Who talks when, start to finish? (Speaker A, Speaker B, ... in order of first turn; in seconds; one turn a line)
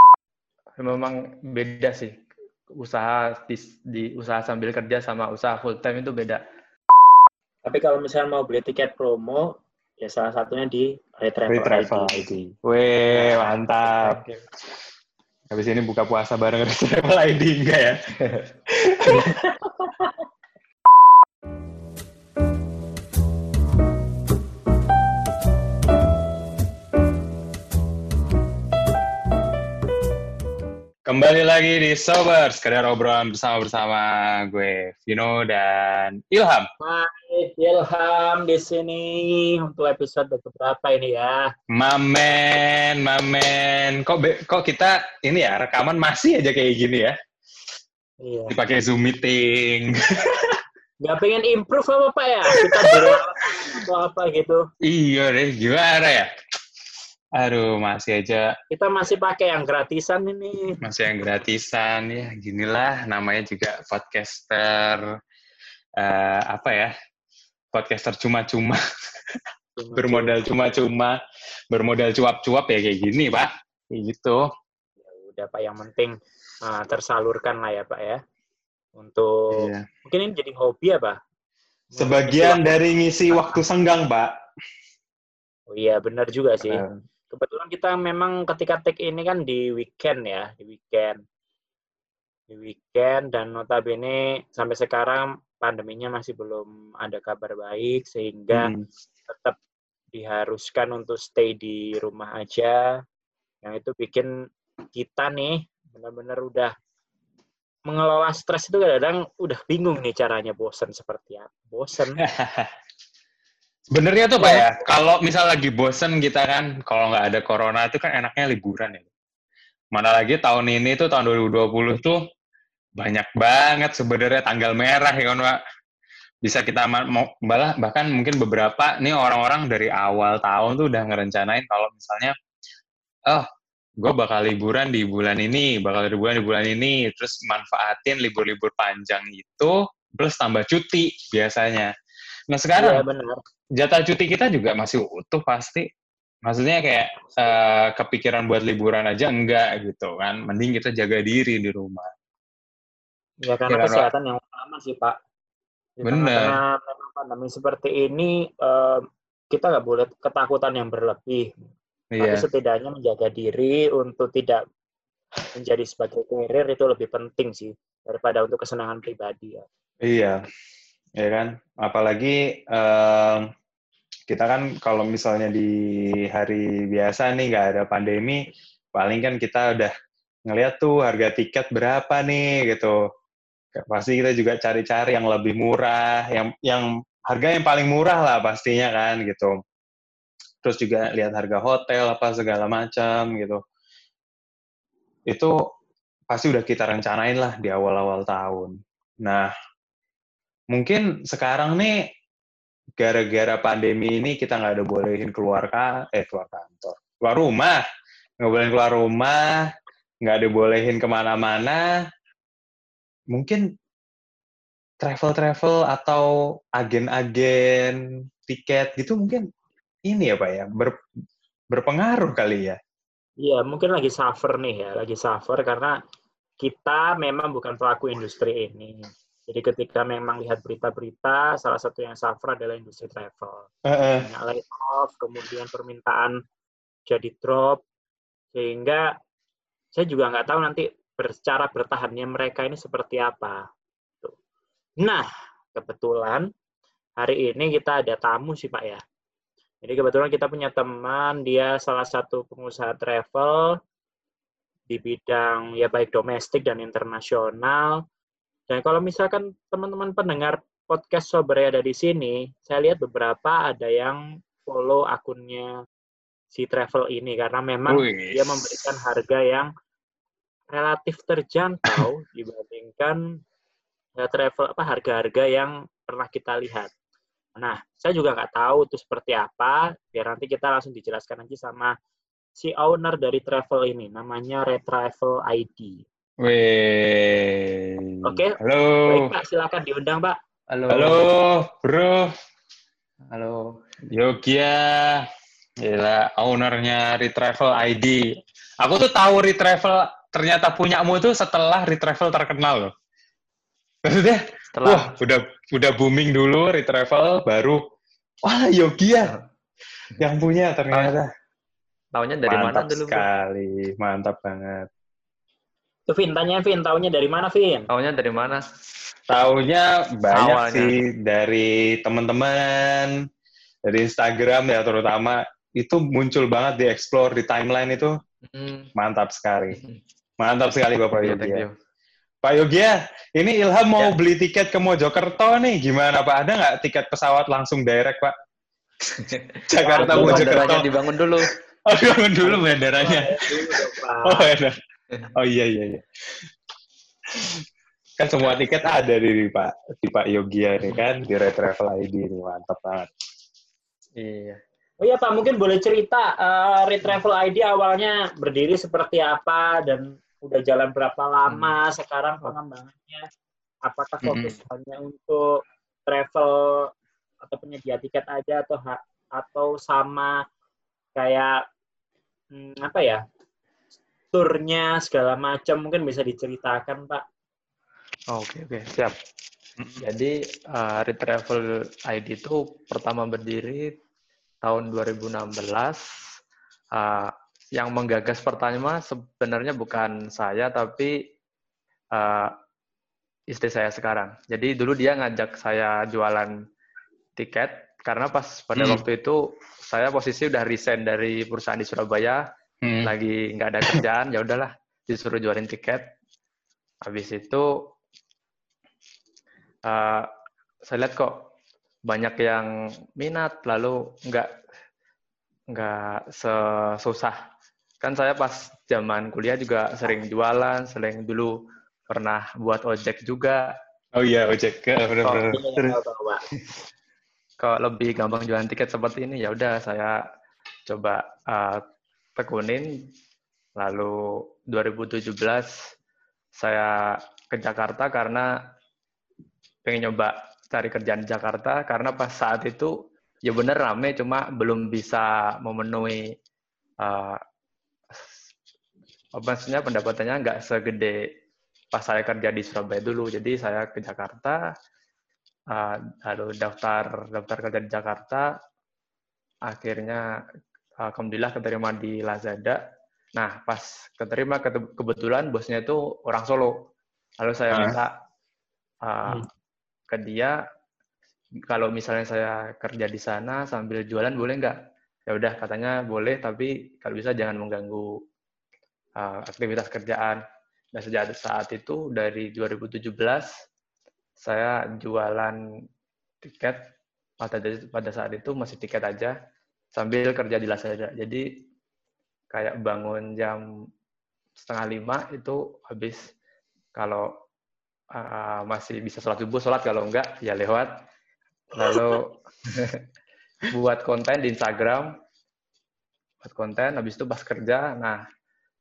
Speaker A: 0.8-2.1
Speaker A: 2.8-6.4
Speaker B: 7.6-12.2
Speaker C: 11.5-14.2
Speaker A: 13.1-14.4
Speaker C: 15.5-18.0
Speaker C: 18.8-19.5
Speaker C: 31.1-36.7
Speaker B: 36.8-41.5
Speaker C: 41.7-47.1
Speaker B: 48.2-48.5
Speaker C: 48.5-50.3
Speaker B: 51.0-54.6
Speaker C: 52.6-53.0
Speaker C: 54.8-56.3
Speaker C: 57.4-58.5
Speaker B: 58.7-60.8
Speaker C: 60.8-65.0
Speaker C: 66.0-66.9
Speaker C: 67.7-68.8
Speaker B: 69.8-70.3
Speaker C: 69.9-71.2
Speaker C: 71.7-74.5
Speaker B: 75.0-78.2
Speaker B: 79.0-81.2
Speaker C: 79.5-79.8
Speaker B: 81.9-82.7
Speaker C: 82.0-84.3
Speaker B: 83.3-83.6
Speaker B: 85.7-91.2
Speaker C: 86.6-87.0
Speaker B: 92.5-98.7
Speaker C: 98.5-98.9
Speaker B: 99.3-99.6
Speaker B: 100.1-102.8
Speaker B: 103.6-104.3
Speaker B: 104.9-106.7
Speaker B: 107.9-112.2
Speaker C: 112.2-112.7
Speaker C: 113.9-119.1
Speaker B: 114.4-114.7
Speaker C: 119.9-122.2
Speaker C: 123.0-125.6
Speaker C: 126.4-132.3
Speaker C: 134.0-141.9
Speaker C: 142.5-143.0
Speaker B: 142.8-143.4
Speaker C: 143.8-145.9
Speaker C: 146.4-152.1
Speaker B: 153.4-155.2
Speaker C: 153.7-154.1
Speaker B: 156.0-161.5
Speaker C: 156.0-156.6
Speaker C: 162.1-162.4
Speaker B: 162.2-164.6
Speaker B: 165.5-169.7
Speaker C: 170.0-170.4
Speaker C: 171.2-173.5
Speaker C: 174.3-178.4
Speaker C: 178.9-179.9
Speaker C: 180.5-183.0
Speaker C: 183.7-189.5
Speaker C: 190.6-193.6
Speaker C: 196.3-198.7
Speaker C: 199.2-199.5
Speaker C: 200.7-202.1
Speaker C: 203.0-207.8
Speaker C: 208.4-209.5
Speaker C: 210.2-211.8
Speaker C: 213.3-213.6
Speaker C: 215.0-219.5
Speaker C: 220.1-220.9
Speaker C: 221.7-222.8
Speaker B: 223.4-226.0
Speaker B: 226.6-236.4
Speaker C: 233.8-234.3
Speaker B: 237.1-237.8
Speaker B: 238.5-239.1
Speaker B: 239.9-243.7
Speaker B: 245.0-246.5
Speaker B: 247.2-249.0
Speaker B: 249.8-253.8
Speaker B: 254.9-258.0
Speaker B: 258.7-265.8
Speaker B: 266.5-269.7
Speaker C: 267.9-269.0
Speaker B: 270.7-273.2
Speaker B: 274.2-276.9
Speaker B: 277.6-281.9
Speaker B: 282.5-286.0
Speaker C: 286.4-289.3
Speaker B: 288.2-290.4
Speaker A: 290.7-291.2
Speaker C: 290.9-292.3
Speaker A: 293.3-293.8
Speaker C: 294.1-295.2
Speaker C: 295.8-298.2
Speaker C: 298.8-302.9
Speaker C: 304.1-307.8
Speaker A: 304.7-305.1
Speaker C: 308.4-309.3
Speaker C: 310.2-311.3
Speaker A: 312.1-313.2
Speaker C: 312.4-314.9
Speaker B: 316.1-317.9
Speaker A: 317.9-318.7
Speaker C: 319.3-323.1
Speaker A: 320.3-320.9
Speaker C: 323.9-328.1
Speaker A: 328.5-328.9
Speaker C: 328.9-329.8
Speaker A: 329.7-330.0
Speaker C: 330.4-331.6
Speaker A: 331.2-331.7
Speaker C: 332.4-338.3
Speaker A: 339.1-341.5
Speaker C: 339.7-340.9
Speaker B: 340.0-340.8
Speaker C: 341.9-344.8
Speaker B: 342.4-344.5
Speaker C: 345.3-346.0
Speaker C: 347.3-347.6
Speaker C: 348.2-353.1
Speaker A: 354.1-354.6
Speaker B: 355.0-363.2
Speaker A: 361.5-361.8
Speaker B: 363.8-370.4
Speaker C: 364.2-364.6
Speaker B: 371.1-371.6
Speaker B: 372.5-373.2
Speaker B: 374.3-377.2
Speaker A: 378.3-379.1
Speaker A: 380.0-383.9
Speaker A: 384.6-386.0
Speaker A: 386.9-391.1
Speaker A: 392.1-392.5
Speaker A: 393.5-396.5
Speaker A: 397.4-402.4
Speaker C: 398.8-399.0
Speaker C: 402.8-403.1
Speaker A: 403.0-406.1
Speaker A: 407.0-407.7
Speaker A: 409.9-410.3
Speaker A: 410.8-411.3
Speaker A: 412.1-414.5
Speaker A: 415.7-417.4
Speaker A: 418.0-421.5
Speaker A: 422.1-423.7
Speaker C: 424.1-426.0
Speaker B: 425.5-426.4
Speaker A: 427.6-430.2
Speaker A: 430.9-431.8
Speaker A: 432.4-433.1
Speaker A: 433.8-434.1
Speaker A: 434.7-435.7
Speaker A: 436.5-438.5
Speaker A: 439.8-442.9
Speaker A: 443.4-446.2
Speaker A: 447.0-447.4
Speaker A: 449.4-451.2
Speaker A: 451.9-454.6
Speaker A: 455.7-458.5
Speaker A: 459.7-460.2
Speaker A: 461.0-462.8
Speaker A: 463.3-466.7
Speaker A: 467.4-468.1
Speaker C: 467.7-468.0
Speaker A: 469.0-469.4
Speaker A: 470.1-470.6
Speaker A: 471.7-478.1
Speaker A: 479.2-480.4
Speaker A: 480.9-483.5
Speaker A: 484.4-485.6
Speaker A: 486.4-486.8
Speaker A: 487.4-489.3
Speaker A: 489.9-491.5
Speaker A: 492.5-493.6
Speaker A: 494.6-496.3
Speaker A: 496.9-497.3
Speaker A: 498.1-500.9
Speaker A: 501.7-503.0
Speaker A: 503.7-505.1
Speaker A: 506.4-508.2